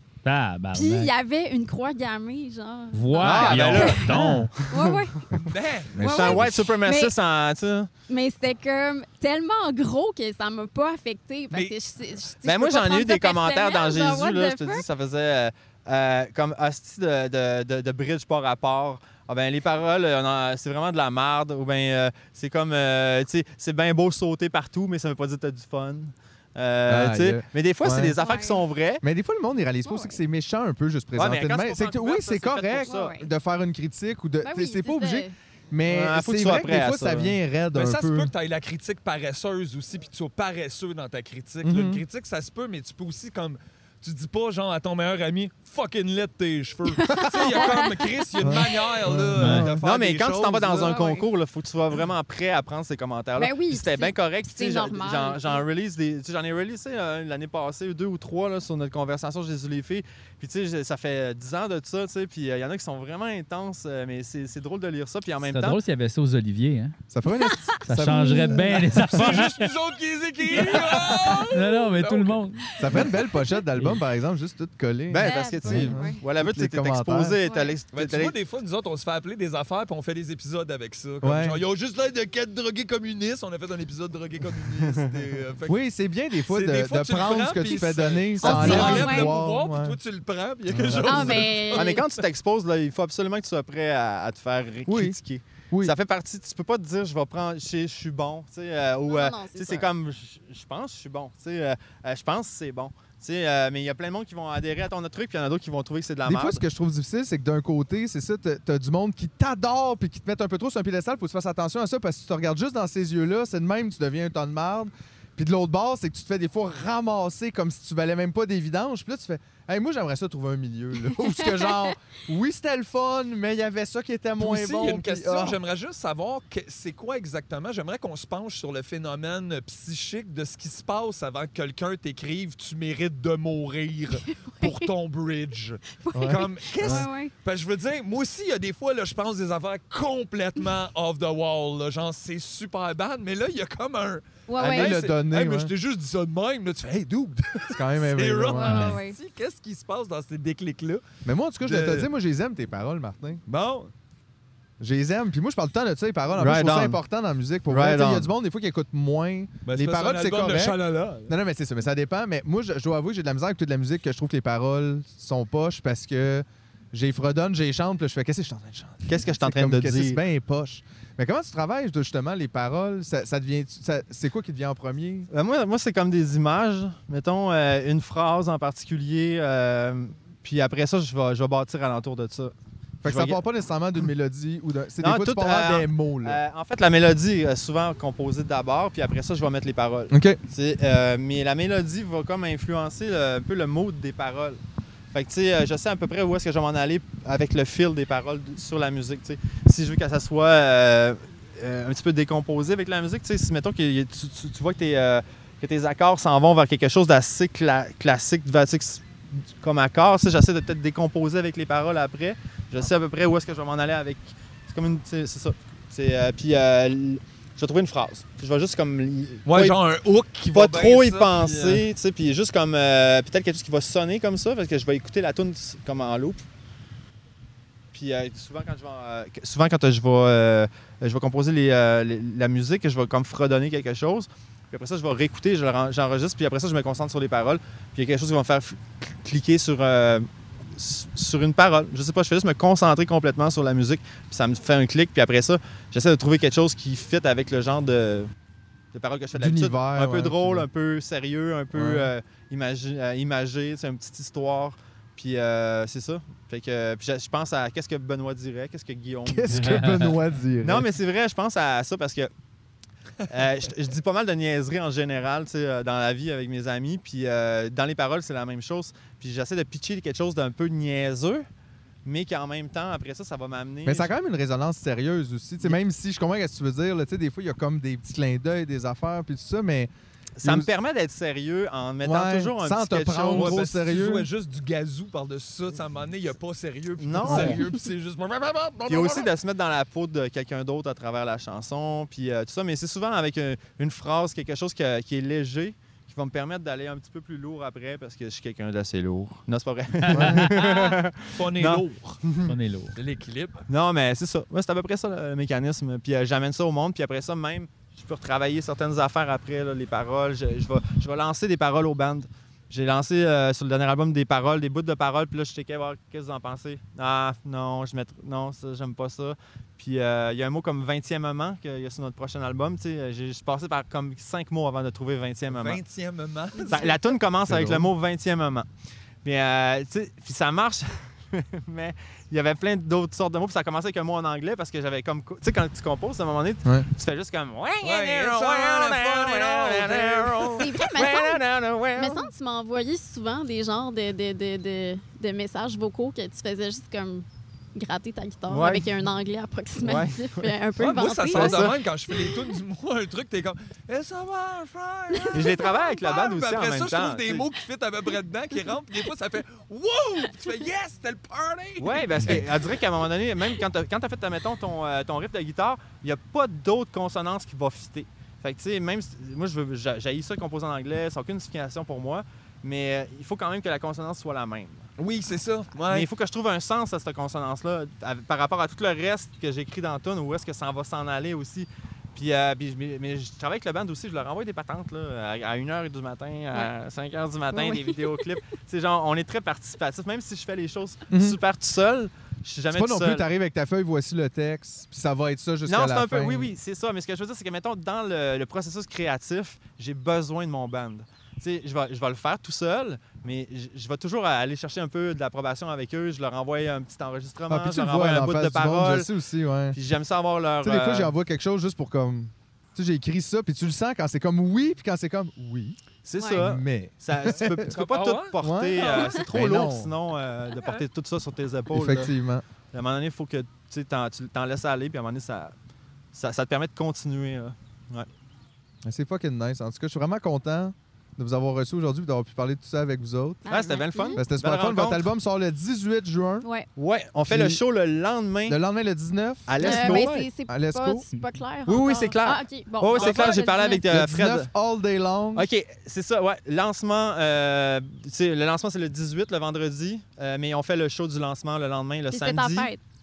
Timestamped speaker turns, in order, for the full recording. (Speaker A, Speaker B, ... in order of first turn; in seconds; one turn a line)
Speaker A: 0.2-1.1
Speaker B: 0.7-4.2
Speaker A: 2.9-4.5
Speaker C: 3.2-5.4
Speaker B: 4.7-5.3
Speaker D: 5.5-6.0
Speaker E: 5.9-6.6
Speaker B: 6.0-7.2
Speaker C: 6.0-7.9
Speaker B: 8.1-14.8
Speaker C: 12.4-29.0
Speaker E: 26.9-28.2
Speaker B: 28.2-28.6
Speaker E: 29.0-38.3
Speaker B: 29.9-30.2
Speaker C: 31.2-33.1
Speaker B: 32.9-33.3
Speaker B: 34.4-35.4
Speaker C: 35.9-37.4
Speaker D: 37.7-51.0
Speaker E: 41.6-42.0
Speaker B: 47.1-48.6
Speaker E: 48.4-49.8
Speaker A: 49.4-49.7
Speaker C: 49.7-65.8
Speaker B: 50.8-51.3
Speaker B: 53.4-55.6
Speaker A: 65.5-67.0
Speaker E: 67.1-69.5
Speaker B: 67.5-68.6
Speaker A: 67.9-69.5
Speaker D: 69.1-72.4
Speaker E: 70.5-71.5
Speaker A: 71.5-72.8
Speaker E: 72.8-77.4
Speaker C: 75.1-78.3
Speaker B: 75.2-76.2
Speaker B: 77.4-77.8
Speaker D: 77.9-85.8
Speaker E: 81.2-81.6
Speaker E: 85.7-90.0
Speaker D: 86.5-92.1
Speaker B: 88.4-89.3
Speaker C: 88.6-88.9
Speaker E: 90.7-91.5
Speaker B: 91.0-92.0
Speaker C: 91.7-106.6
Speaker E: 94.9-95.2
Speaker B: 99.1-99.9
Speaker E: 106.2-125.6
Speaker B: 121.2-121.9
Speaker D: 124.4-151.0
Speaker B: 134.2-134.9
Speaker B: 136.0-137.3
Speaker E: 136.1-137.1
Speaker B: 144.5-145.0
Speaker E: 144.6-145.7
Speaker E: 147.7-149.0
Speaker B: 148.6-149.2
Speaker E: 151.2-153.4
Speaker D: 151.7-152.1
Speaker D: 153.5-153.9
Speaker E: 154.8-175.3
Speaker C: 156.4-157.0
Speaker C: 157.7-158.3
Speaker D: 159.7-161.3
Speaker C: 169.1-170.2
Speaker C: 175.3-183.4
Speaker E: 183.0-186.4
Speaker C: 185.0-194.6
Speaker E: 190.1-190.4
Speaker C: 195.1-209.1
Speaker C: 209.6-219.8
Speaker D: 219.5-221.8
Speaker C: 220.5-226.4
Speaker C: 227.9-248.3
Speaker C: 248.9-260.0
Speaker E: 249.3-250.7
Speaker E: 251.7-252.1
Speaker E: 259.2-260.9
Speaker A: 259.5-260.0
Speaker C: 260.6-262.3
Speaker C: 263.3-271.4
Speaker C: 272.1-274.1
Speaker E: 273.9-279.9
Speaker C: 280.4-283.6
Speaker E: 280.4-280.7
Speaker E: 282.0-284.3
Speaker D: 283.3-289.3
Speaker C: 287.0-287.6
Speaker E: 287.2-287.6
Speaker C: 288.9-302.6
Speaker A: 300.0-300.5
Speaker E: 300.1-300.5
Speaker D: 300.6-302.2
Speaker A: 302.5-302.9
Speaker D: 303.0-303.6
Speaker C: 303.7-325.8
Speaker D: 325.5-327.0
Speaker C: 326.7-328.7
Speaker E: 327.4-327.9
Speaker C: 329.2-342.3
Speaker D: 337.8-340.6
Speaker B: 340.6-341.4
Speaker B: 342.0-352.5
Speaker C: 348.5-349.1
Speaker C: 349.8-350.5
Speaker D: 350.8-362.6
Speaker C: 351.3-351.8
Speaker B: 355.1-355.8
Speaker C: 355.3-357.5
Speaker C: 361.8-374.9
Speaker D: 375.0-376.1
Speaker C: 375.9-393.2
Speaker B: 387.5-388.3
Speaker E: 391.1-391.4
Speaker E: 392.7-396.5
Speaker C: 395.7-409.1
Speaker E: 407.5-409.8
Speaker C: 409.7-411.1
Speaker E: 410.6-415.8
Speaker C: 416.0-422.1
Speaker B: 416.2-416.4
Speaker E: 416.4-417.7
Speaker D: 417.7-419.1
Speaker E: 418.4-419.9
Speaker E: 421.7-422.4
Speaker C: 422.7-425.5
Speaker C: 426.1-428.1
Speaker E: 428.8-433.5
Speaker B: 433.5-434.2
Speaker C: 433.5-435.1
Speaker E: 434.2-436.5
Speaker B: 436.4-436.7
Speaker C: 436.8-438.6
Speaker E: 437.3-437.6
Speaker E: 438.5-441.1
Speaker C: 439.5-440.3
Speaker B: 439.6-443.8
Speaker C: 441.7-444.5
Speaker D: 442.9-443.4
Speaker E: 443.9-445.5
Speaker C: 445.4-452.7
Speaker B: 452.1-452.8